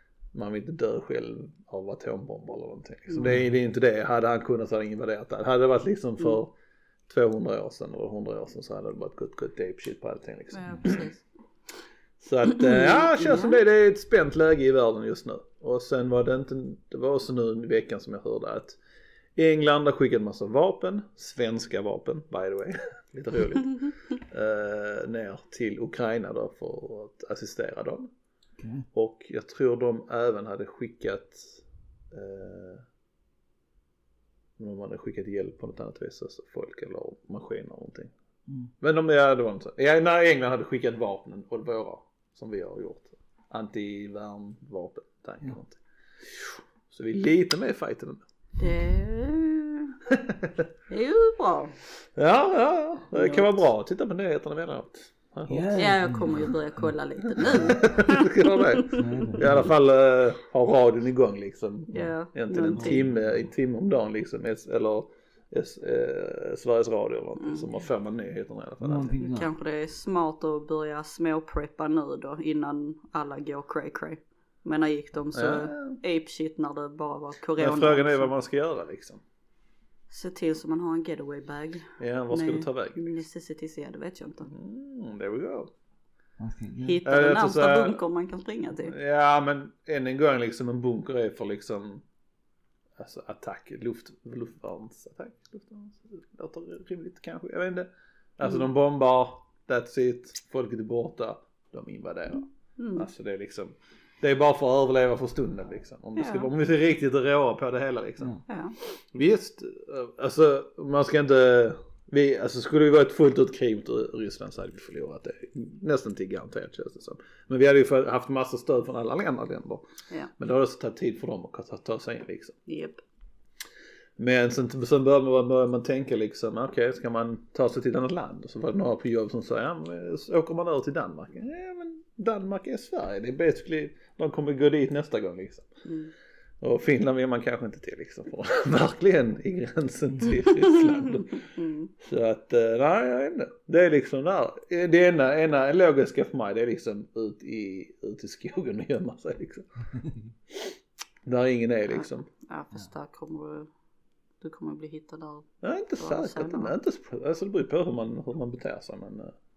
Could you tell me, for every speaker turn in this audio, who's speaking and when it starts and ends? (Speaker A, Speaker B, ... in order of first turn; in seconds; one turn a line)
Speaker A: 0.3-6.5
Speaker B: 3.2-3.5
Speaker A: 7.1-11.1
Speaker C: 10.5-11.2
Speaker A: 12.2-18.8
Speaker C: 12.6-13.6
Speaker A: 19.4-28.1
Speaker B: 28.6-28.9
Speaker A: 28.9-32.9
Speaker A: 34.6-38.1
Speaker B: 38.5-38.7
Speaker A: 38.8-48.2
Speaker C: 48.6-50.0
Speaker A: 50.1-50.7
Speaker C: 50.9-51.8
Speaker A: 52.1-56.3
Speaker C: 53.1-53.5
Speaker B: 55.5-56.9
Speaker C: 55.8-59.2
Speaker A: 57.4-69.2
Speaker B: 57.4-57.9
Speaker B: 58.9-59.7
Speaker C: 61.9-63.0
Speaker B: 62.7-63.3
Speaker C: 67.4-67.7
Speaker B: 68.8-69.5
Speaker C: 69.2-78.3
Speaker A: 75.3-76.0
Speaker A: 77.6-79.2
Speaker C: 80.1-84.5
Speaker A: 82.0-83.1
Speaker A: 84.5-85.7
Speaker B: 86.4-87.0
Speaker C: 86.8-88.9
Speaker A: 87.0-88.0
Speaker A: 88.8-92.0
Speaker A: 93.0-119.8
Speaker C: 102.8-103.1
Speaker C: 106.2-106.5
Speaker C: 108.5-108.8
Speaker A: 120.4-122.6
Speaker C: 122.7-123.0
Speaker A: 124.2-135.7
Speaker C: 135.8-136.1
Speaker A: 136.6-149.7
Speaker C: 141.0-141.9
Speaker A: 150.5-152.3
Speaker C: 151.9-153.7
Speaker C: 154.4-155.5
Speaker A: 155.6-159.3
Speaker C: 156.0-156.7